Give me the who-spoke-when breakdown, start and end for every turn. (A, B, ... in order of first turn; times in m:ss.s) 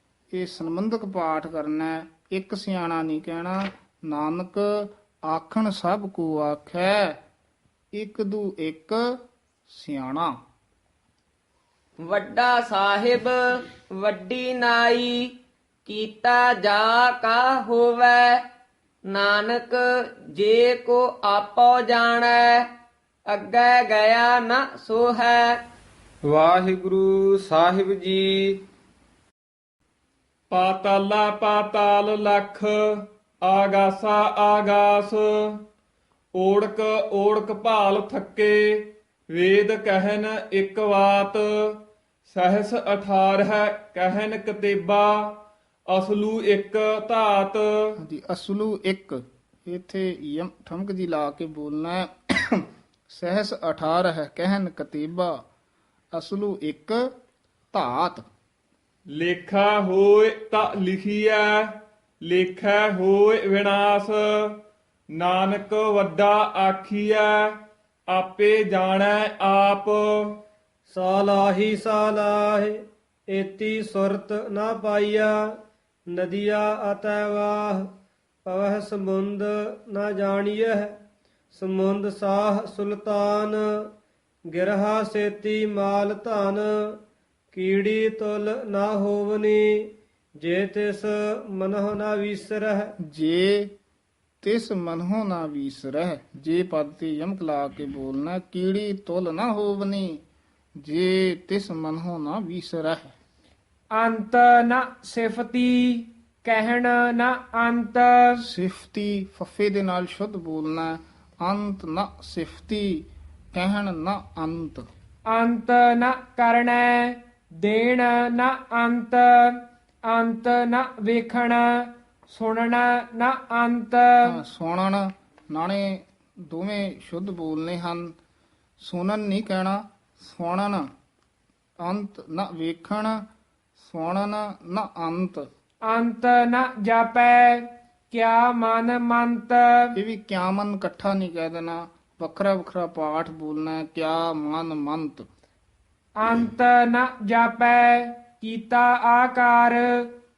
0:00.3-0:07.2 A
0:07.9-0:09.1 A
0:09.7-0:10.4 A
0:12.1-0:15.3 B
0:15.9-0:18.4 B
0:19.1-0:22.7 B
0:23.3-0:25.6 B
0:26.2-0:28.6 C
0:30.5-0:35.6 D
0:36.4-0:47.9 D
0:48.0-0:55.4 A
0:56.1-0:57.0 A
0:57.7-0:58.2 A
0:59.1-1:04.6 D
1:05.1-1:10.4 D
1:10.9-1:15.4 E
1:16.1-1:17.9 E
1:18.5-1:21.0 E
1:21.5-1:23.9 E
1:24.5-1:26.7 E
1:27.5-1:29.7 E
1:30.4-1:32.9 E
1:33.1-1:33.7 A
1:34.4-1:40.2 A
1:40.8-1:43.2 A
1:44.0-1:48.4 F
1:48.4-1:54.9 A
1:55.3-2:04.4 F
2:04.3-2:08.2 A
2:08.8-2:10.9 A
2:11.8-2:13.2 A
2:13.8-2:15.5 A
2:15.9-2:20.0 F
2:20.0-2:25.3 A
2:26.2-2:30.1 F